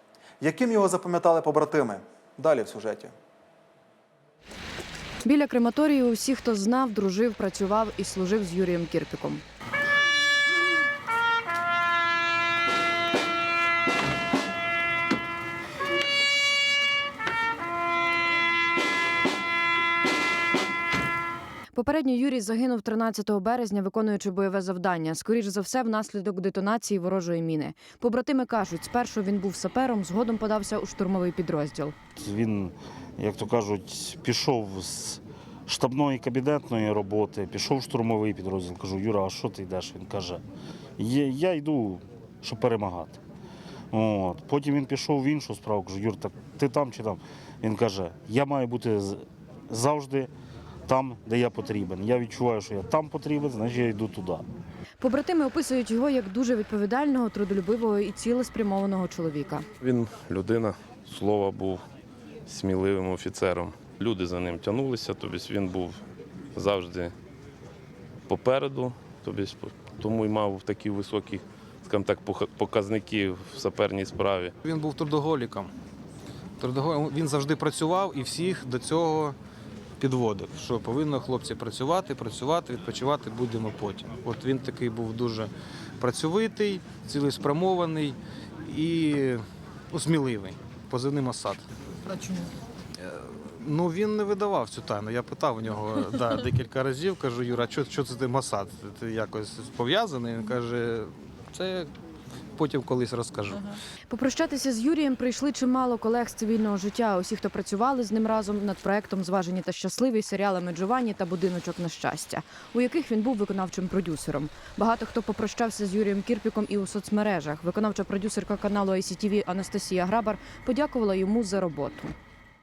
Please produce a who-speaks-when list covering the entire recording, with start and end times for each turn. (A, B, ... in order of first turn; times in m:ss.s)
0:00.4-0:03.1 A
0:05.2-0:09.4 B
0:21.7-0:32.0 B
0:32.2-0:40.4 C
0:41.0-0:43.2 C
0:43.9-0:50.3 C
0:50.9-0:54.4 C
0:55.0-0:59.7 B
0:59.8-1:01.8 D
1:02.5-1:06.0 D
1:06.6-1:07.1 D
1:08.3-1:14.5 D
1:14.6-1:15.7 E
1:16.6-1:19.4 E
1:20.0-1:31.7 E
1:33.0-1:41.9 E
1:42.6-1:43.7 E
1:44.1-2:02.1 B